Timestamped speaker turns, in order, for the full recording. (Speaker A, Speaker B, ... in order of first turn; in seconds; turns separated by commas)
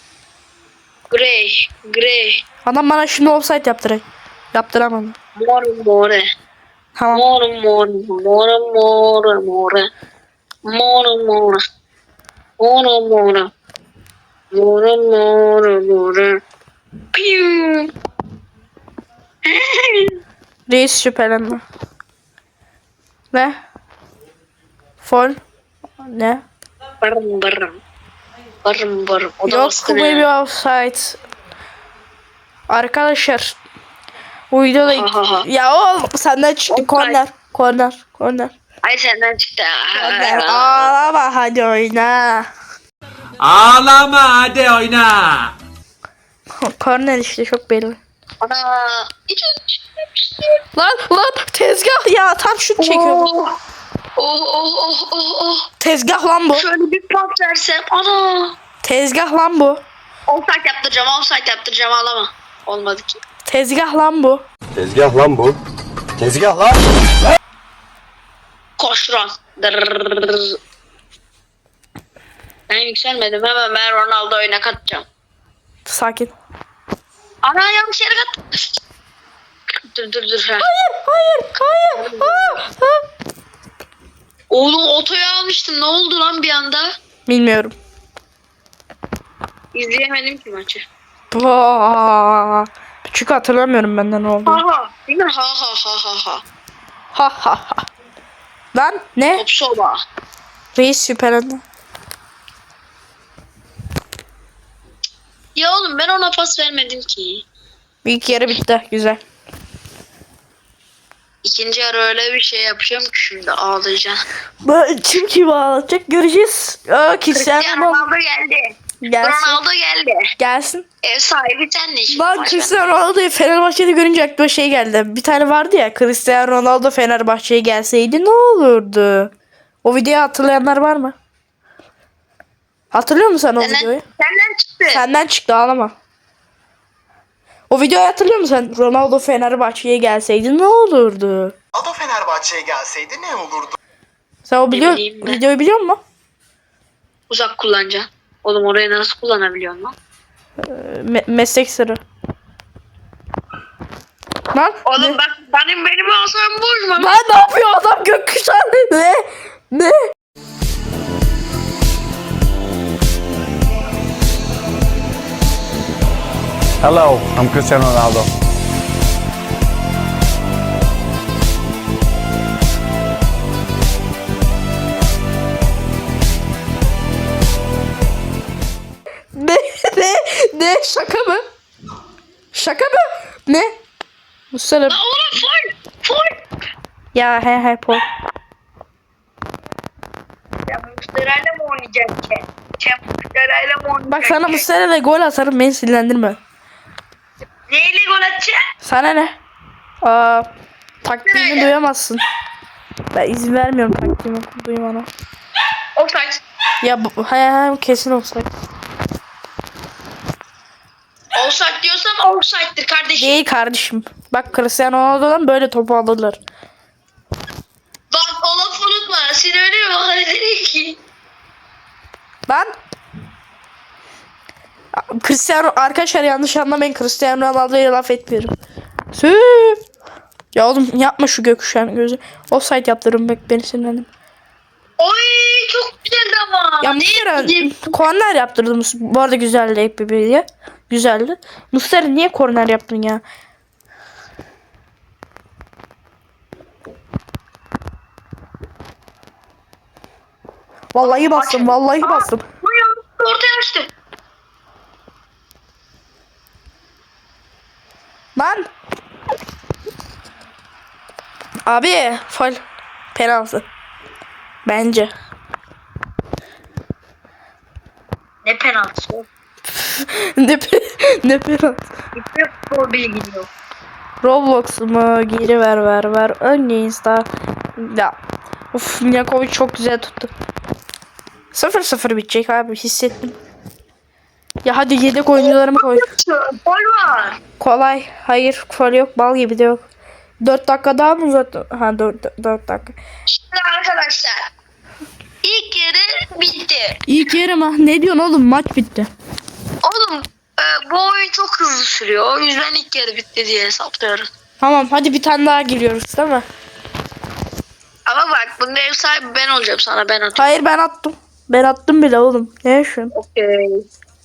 Speaker A: 1.1-2.4, Speaker B: 2.6-5.2, Speaker A: 5.4-6.2, Speaker B: 7.0-7.2, Speaker A: 7.1-9.9, Speaker A: 10.7-11.6, Speaker A: 12.6-13.5, Speaker A: 14.5-16.4, Speaker A: 17.1-17.9, Speaker A: 19.4-20.1, Speaker B: 20.7-21.6, Speaker B: 23.3-23.6, Speaker B: 25.0-25.4, Speaker B: 26.0-26.4, Speaker A: 27.0-27.8, Speaker A: 28.6-30.3, Speaker B: 29.4-31.2, Speaker B: 32.7-33.6, Speaker B: 34.5-38.5, Speaker A: 34.8-35.5, Speaker A: 36.7-37.2, Speaker A: 38.8-40.9, Speaker B: 39.9-42.5, Speaker C: 43.4-45.5, Speaker B: 46.6-48.0, Speaker A: 48.4-50.6, Speaker B: 50.8-53.3, Speaker A: 52.8-53.6, Speaker A: 54.2-55.7, Speaker B: 55.8-56.7, Speaker A: 56.5-58.5, Speaker B: 58.8-59.8, Speaker A: 60.3-63.2, Speaker B: 63.4-64.4, Speaker D: 64.7-65.6, Speaker D: 66.2-66.8, Speaker A: 68.8-70.6, Speaker A: 72.7-75.0, Speaker B: 75.8-76.3, Speaker A: 77.4-78.7, Speaker A: 79.8-80.7, Speaker B: 80.6-83.0, Speaker A: 81.9-82.6, Speaker A: 84.5-86.9, Speaker B: 87.3-87.7, Speaker A: 89.7-90.8, Speaker B: 91.3-94.6, Speaker A: 94.5-96.4, Speaker B: 97.1-97.8, Speaker B: 98.7-99.4, Speaker A: 99.3-100.0, Speaker B: 100.7-101.6, Speaker A: 105.5-107.4, Speaker B: 108.0-109.2, Speaker A: 111.4-114.2, Speaker B: 114.6-118.0, Speaker A: 117.3-120.3, Speaker B: 119.0-119.6, Speaker B: 120.4-120.8, Speaker A: 121.0-123.0, Speaker B: 122.1-129.3, Speaker B: 129.8-131.1, Speaker B: 132.9-134.0, Speaker A: 133.6-135.0, Speaker B: 134.9-135.9, Speaker B: 137.7-141.5, Speaker E: 141.7-143.8, Speaker B: 144.4-146.0, Speaker A: 144.7-145.4, Speaker A: 147.3-149.9, Speaker B: 150.6-152.0, Speaker B: 154.5-155.2, Speaker A: 154.8-157.2, Speaker B: 157.0-160.1, Speaker D: 166.8-168.3, Speaker B: 179.3-181.4, Speaker B: 182.5-183.7, Speaker B: 184.5-185.0, Speaker A: 184.9-186.4, Speaker B: 187.1-188.0, Speaker A: 190.7-194.6, Speaker B: 194.1-196.4, Speaker A: 197.7-198.6, Speaker B: 198.8-199.3, Speaker B: 200.0-200.5, Speaker B: 201.0-202.2, Speaker A: 201.2-201.7, Speaker B: 203.1-205.1, Speaker A: 205.9-206.4, Speaker B: 206.8-208.5, Speaker A: 211.3-213.4, Speaker B: 213.2-216.4, Speaker A: 218.1-221.0, Speaker B: 222.5-222.7, Speaker B: 224.9-228.5, Speaker B: 229.1-229.8, Speaker B: 230.5-234.1, Speaker A: 235.0-237.9, Speaker B: 236.8-243.2, Speaker B: 250.9-252.4, Speaker A: 251.0-253.9, Speaker B: 258.4-258.6, Speaker B: 261.7-262.6, Speaker B: 263.1-263.6, Speaker B: 264.6-265.1, Speaker A: 268.4-269.2, Speaker B: 269.7-271.8, Speaker A: 272.1-273.5, Speaker B: 274.2-278.1, Speaker B: 278.7-280.3, Speaker B: 281.5-283.4, Speaker B: 284.6-286.1, Speaker A: 285.4-287.4, Speaker B: 287.6-289.8, Speaker B: 290.4-293.0, Speaker A: 293.3-294.4, Speaker A: 295.4-297.0, Speaker B: 297.1-299.1, Speaker A: 299.8-304.3, Speaker B: 304.6-306.4, Speaker A: 308.1-310.5, Speaker B: 310.4-313.1, Speaker A: 313.1-313.8